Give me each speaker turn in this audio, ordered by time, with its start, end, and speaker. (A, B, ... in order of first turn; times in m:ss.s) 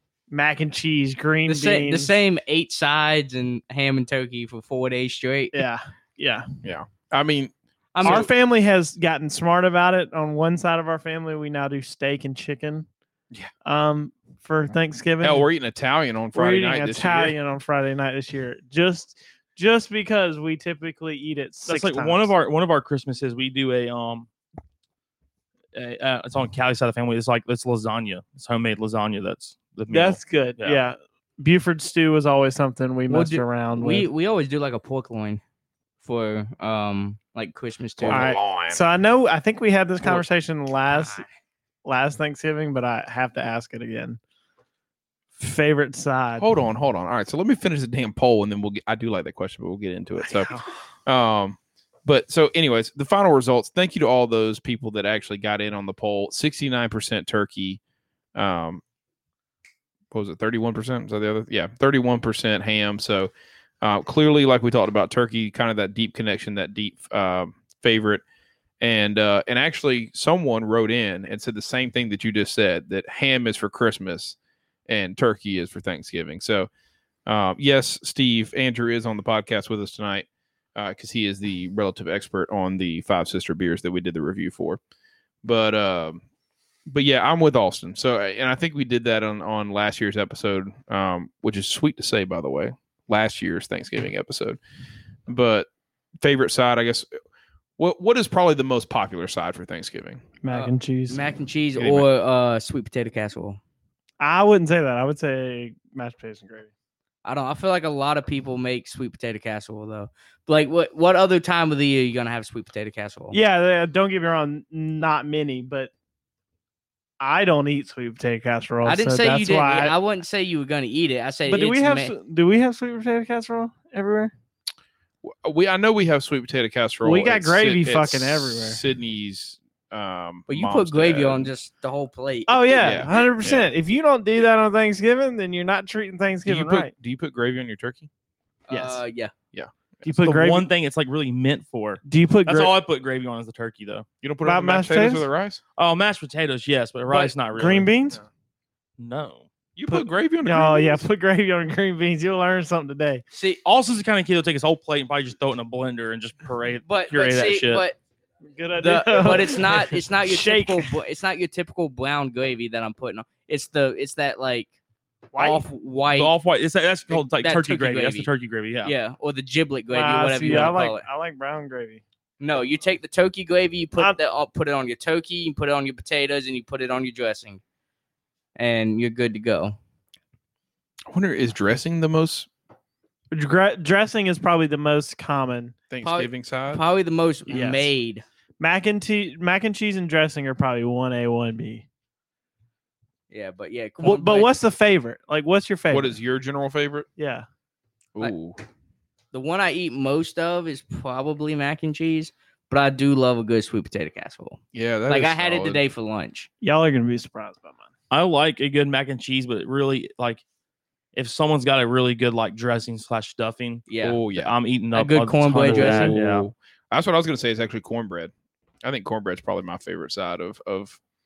0:00.3-0:02.1 A
0:01.5-0:05.6 B
0:05.5-0:06.5 A
0:06.6-0:07.5 C
0:07.9-0:08.3 B
0:08.0-0:12.9 A
0:13.6-0:15.5 A
0:15.2-0:17.4 C
0:16.3-0:22.3 A
0:21.6-0:24.3 D
0:25.7-0:30.8 D
0:29.9-0:34.1 A
0:33.1-0:35.4 B
0:36.0-0:38.3 B
0:38.0-0:38.8 C
0:38.1-0:41.2 A
0:40.9-0:41.3 B
0:41.8-0:44.2 A
0:45.4-0:46.5 A
0:46.4-0:57.8 C
0:50.2-0:50.7 A
0:58.4-0:58.8 C
1:00.1-1:08.2 C
1:08.8-1:14.4 C
1:14.9-1:16.7 C
1:17.3-1:24.8 C
1:25.4-1:26.2 C
1:26.9-1:34.6 C
1:35.3-1:35.7 C
1:36.2-1:37.1 C
1:37.8-1:40.2 C
1:40.4-1:41.3 A
1:40.5-1:43.6 B
1:41.8-1:42.1 C
1:44.2-1:46.7 A
1:47.2-1:53.4 B
1:53.3-1:55.9 A
1:57.2-1:59.9 A
1:58.8-2:02.1 B
2:01.5-2:04.3 A
2:05.2-2:11.5 C
2:07.0-2:08.8 A
2:10.5-2:13.0 B
2:12.5-2:16.9 A
2:12.8-2:13.7 C
2:16.5-2:18.1 C
2:18.7-2:19.3 B
2:18.7-2:19.0 A
2:19.5-2:20.2 C
2:20.0-2:20.7 A
2:20.2-2:24.1 D
2:22.0-2:22.7 A
2:24.2-2:25.6 C
2:24.4-2:25.3 A
2:25.8-2:27.9 D
2:27.1-2:28.2 A
2:29.0-2:29.5 D
2:29.8-2:31.0 C
2:29.9-2:33.2 A
2:33.3-2:33.6 B
2:33.6-2:37.9 D
2:36.9-2:38.0 B
2:38.6-2:41.0 A
2:38.8-2:44.7 B
2:45.3-2:45.6 A
2:45.4-2:46.3 B
2:46.1-2:48.9 D
2:47.1-2:48.3 B
2:48.8-2:51.0 B
2:49.9-2:52.0 A
2:52.4-2:57.6 B
2:58.6-2:59.8 B
3:01.1-3:02.5 C
3:03.3-3:05.8 A
3:05.9-3:06.8 C
3:06.0-3:08.2 B
3:07.5-3:07.9 A
3:08.6-3:11.9 A
3:13.3-3:14.5 B
3:14.0-3:16.2 A
3:15.9-3:17.1 C
3:17.2-3:17.5 A
3:18.2-3:18.6 C
3:19.3-3:26.5 B
3:24.7-3:25.8 C
3:26.6-3:27.9 A
3:28.1-3:30.4 D
3:31.1-3:36.5 D
3:33.9-3:34.2 B
3:34.0-3:34.5 C
3:34.9-3:36.2 B
3:35.7-3:38.3 C
3:38.8-3:41.0 C